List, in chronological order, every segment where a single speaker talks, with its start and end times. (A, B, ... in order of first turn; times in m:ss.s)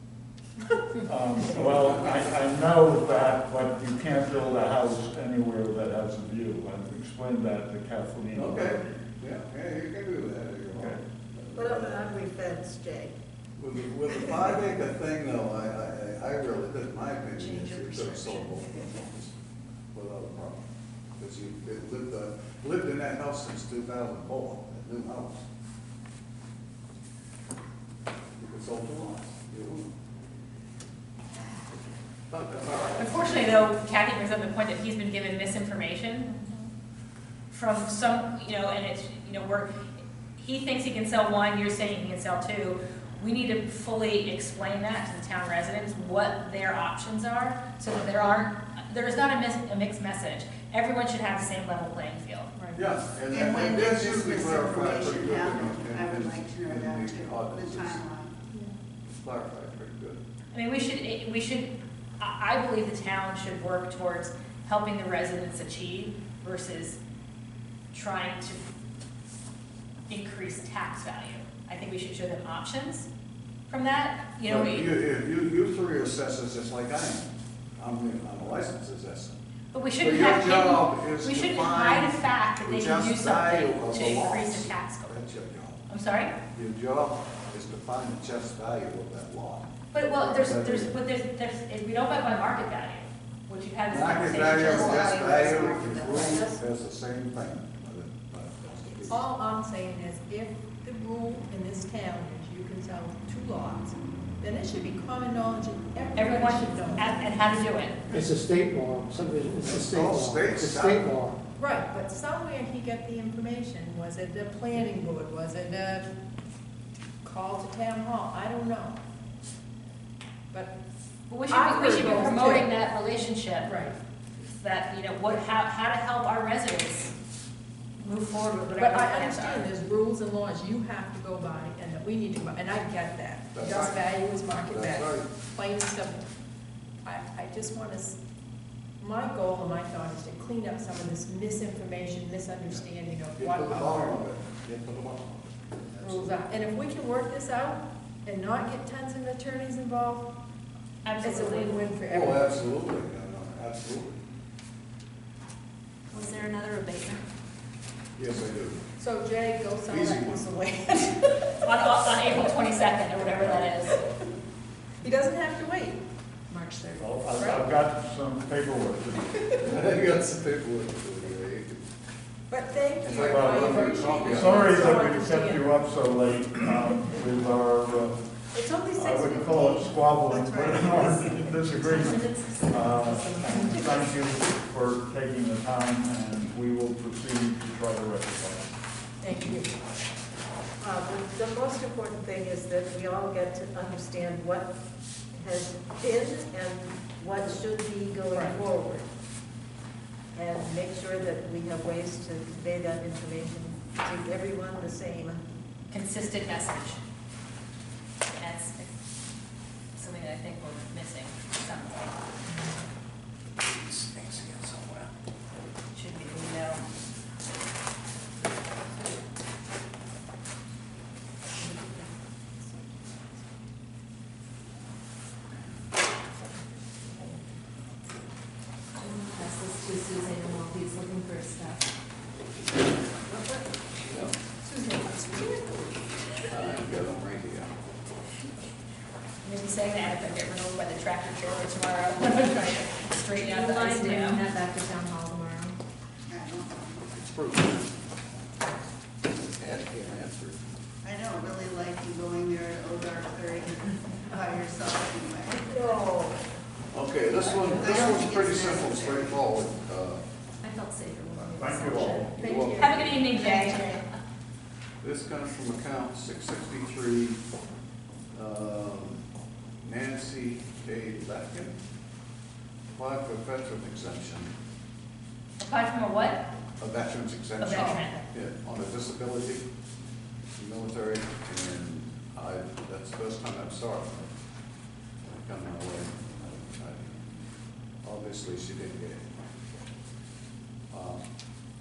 0:01.0-0:08.8 A
0:01.5-0:02.3 B
0:08.3-0:12.1 B
0:10.7-0:11.0 A
0:11.5-0:13.1 C
0:13.6-0:19.3 B
0:17.4-0:18.5 D
0:19.9-0:20.6 B
0:21.2-0:25.4 B
0:28.4-0:29.9 B
0:32.3-0:33.7 B
0:33.0-0:36.4 D
0:37.5-0:39.7 D
0:40.4-0:52.5 D
0:52.8-0:58.0 B
0:53.3-0:58.3 E
0:59.1-1:00.2 B
1:00.5-1:07.0 D
1:07.9-1:08.7 D
1:10.1-1:13.1 D
1:13.7-1:14.9 D
1:14.4-1:19.4 B
1:19.7-1:25.2 D
1:20.0-1:25.8 B
1:25.9-1:26.3 D
1:26.5-1:30.9 B
1:29.9-1:35.5 D
1:33.9-1:39.2 B
1:34.4-1:36.4 E
1:36.0-1:36.5 C
1:39.3-1:47.1 F
1:42.5-1:42.9 C
1:46.2-1:48.0 D
1:48.1-1:51.4 G
1:49.6-1:51.2 B
1:51.6-1:56.1 F
1:57.2-1:59.0 F
2:01.3-2:03.7 D
2:01.7-2:02.7 F
2:03.6-2:04.0 F
2:04.6-2:07.1 D
2:08.0-2:09.7 D
2:08.8-2:15.0 F
2:13.5-2:14.0 B
2:14.6-2:15.3 B
2:15.5-2:16.2 F
2:17.0-2:18.2 F
2:19.0-2:24.0 F
2:23.4-2:26.3 B
2:26.3-2:30.3 F
2:31.0-2:31.8 D
2:31.2-2:32.1 F
2:32.1-2:34.2 B
2:36.1-2:37.2 H
2:38.2-2:38.8 B
2:39.0-2:39.5 C
2:39.2-2:41.1 F
2:39.9-2:40.4 B
2:41.6-2:44.0 D
2:45.2-2:46.0 F
2:46.5-2:47.0 H
2:46.9-2:47.6 F
2:47.0-2:49.4 A
2:49.6-2:51.8 B
2:52.5-2:54.5 C
2:53.0-2:54.8 B
2:53.1-2:58.2 A
2:54.4-2:55.6 F
2:58.5-3:01.5 C
2:58.9-3:08.7 A
3:01.8-3:04.1 H
3:09.2-3:09.7 F
3:10.8-3:14.8 C
3:15.3-3:19.1 C
3:20.3-3:25.4 C
3:25.9-3:27.0 D
3:28.4-3:28.9 D
3:29.9-3:32.1 D
3:33.7-3:35.1 B
3:35.9-3:36.8 D
3:41.6-3:42.1 H
3:49.0-3:51.8 H
3:54.0-3:54.3 B
3:56.4-3:57.7 B
3:59.4-4:04.4 D
4:03.4-4:05.8 H
4:06.3-4:07.1 E
4:07.1-4:08.7 B
4:09.4-4:10.6 B
4:11.0-4:16.0 E
4:15.7-4:16.4 C
4:16.9-4:20.2 B
4:17.5-4:19.4 E
4:20.6-4:22.6 H
4:21.5-4:22.4 A
4:22.4-4:23.3 B
4:22.5-4:22.8 F
4:22.6-4:23.6 C
4:22.8-4:24.0 D
4:23.6-4:23.9 H
4:25.0-4:27.4 B
4:28.3-4:29.2 B
4:29.8-4:31.8 B
4:32.9-4:34.5 B
4:35.6-4:36.4 D
4:36.8-4:39.6 B
4:37.6-4:38.2 D
4:40.6-4:44.3 B
4:45.3-4:47.3 B
4:48.0-4:49.3 B
4:50.9-4:51.2 B